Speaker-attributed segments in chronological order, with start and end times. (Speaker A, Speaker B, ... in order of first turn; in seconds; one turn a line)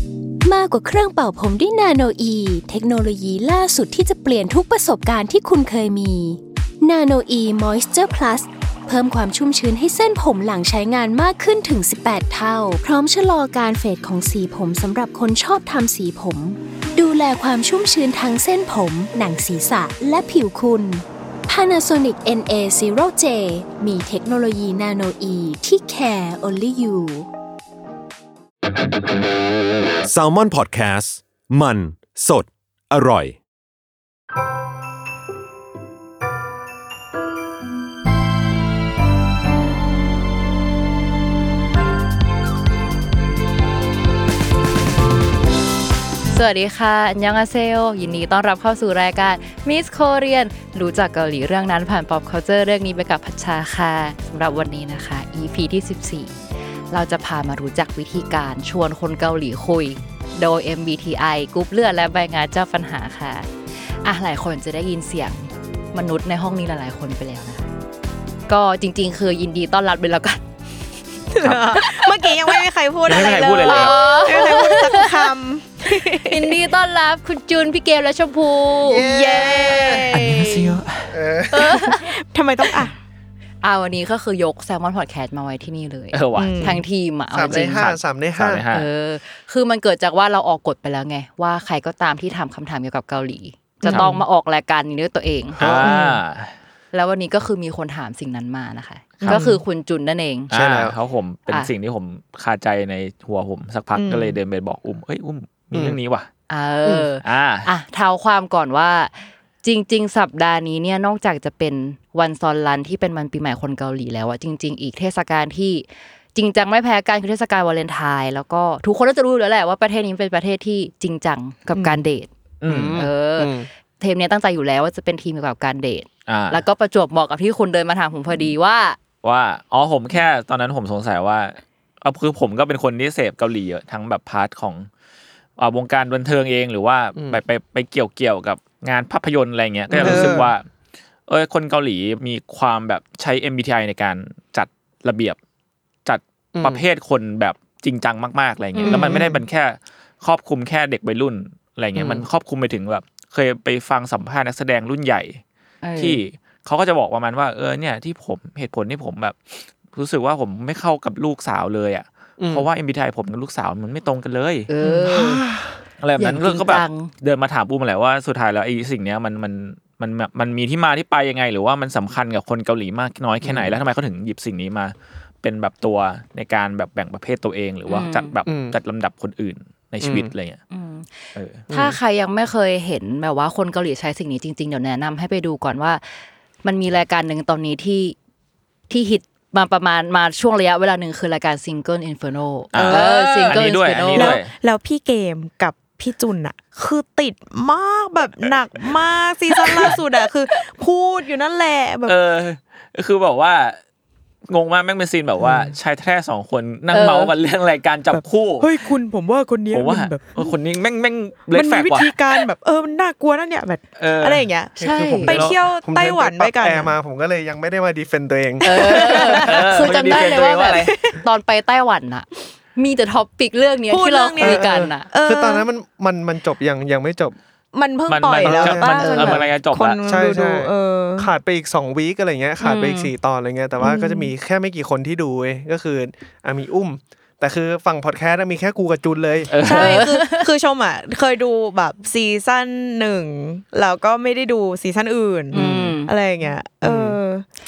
Speaker A: 0.4-27.3
Speaker B: 30.0-33.4
Speaker C: 46.3-56.4
Speaker C: 56.9-63.5
Speaker C: 64.0-67.7
Speaker C: 68.5-70.4
Speaker D: 71.3-76.6
Speaker E: 71.4-71.8
Speaker C: 71.8-72.3
Speaker E: 73.1-74.5
Speaker C: 73.6-75.3
Speaker C: 76.0-79.1
Speaker F: 78.8-80.2
Speaker D: 78.9-80.8
Speaker E: 79.8-81.2
Speaker F: 81.1-82.0
Speaker C: 81.5-82.1
Speaker D: 81.9-83.0
Speaker C: 83.6-87.8
Speaker E: 86.1-86.8
Speaker D: 86.4-86.8
Speaker F: 87.3-88.6
Speaker E: 87.5-88.9
Speaker C: 88.7-95.6
Speaker D: 93.8-94.2
Speaker F: 95.6-95.9
Speaker E: 95.6-96.5
Speaker D: 95.8-96.2
Speaker C: 96.9-100.5
Speaker D: 99.2-99.6
Speaker E: 100.5-106.3
Speaker F: 100.5-100.9
Speaker D: 104.0-104.4
Speaker F: 105.7-106.0
Speaker C: 106.5-109.1
Speaker E: 107.2-107.7
Speaker C: 109.6-122.3
Speaker D: 121.8-122.0
Speaker E: 122.6-123.0
Speaker F: 122.7-123.7
Speaker C: 122.9-129.0
Speaker E: 126.3-126.6
Speaker E: 129.2-134.9
Speaker E: 135.6-140.6
Speaker F: 137.2-137.4
Speaker C: 139.9-140.4
Speaker F: 140.0-140.5
Speaker E: 141.3-145.4
Speaker E: 146.1-155.4
Speaker F: 146.6-146.8
Speaker C: 148.8-149.2
Speaker F: 148.9-149.4
Speaker F: 152.0-152.2
Speaker C: 155.8-156.2
Speaker E: 156.0-164.7
Speaker F: 162.4-162.7
Speaker C: 164.7-165.4
Speaker F: 164.8-165.8
Speaker E: 166.0-180.6
Speaker C: 166.2-167.1
Speaker F: 173.4-173.8
Speaker C: 177.9-178.3
Speaker F: 178.5-178.8
Speaker F: 180.0-180.3
Speaker C: 180.7-186.0
Speaker E: 181.3-181.7
Speaker F: 181.7-182.0
Speaker C: 186.6-188.2
Speaker C: 188.9-194.4
Speaker E: 192.7-194.5
Speaker D: 192.7-193.6
Speaker D: 194.2-202.2
Speaker E: 199.6-200.0
Speaker E: 202.1-203.8
Speaker E: 204.5-208.7
Speaker C: 206.9-207.3
Speaker D: 208.1-210.5
Speaker E: 209.7-212.1
Speaker D: 211.5-216.9
Speaker E: 214.0-214.5
Speaker F: 214.8-219.5
Speaker C: 214.8-215.3
Speaker C: 218.6-225.1
Speaker D: 218.7-219.4
Speaker E: 219.3-220.9
Speaker D: 220.7-221.2
Speaker D: 223.9-225.7
Speaker F: 224.4-227.4
Speaker D: 227.7-231.3
Speaker E: 228.1-230.0
Speaker F: 228.4-229.5
Speaker F: 230.0-239.6
Speaker C: 232.6-233.1
Speaker D: 233.8-234.3
Speaker E: 239.5-240.1
Speaker D: 239.6-247.4
Speaker C: 239.7-240.5
Speaker C: 245.5-246.1
Speaker F: 245.5-246.0
Speaker F: 246.8-247.2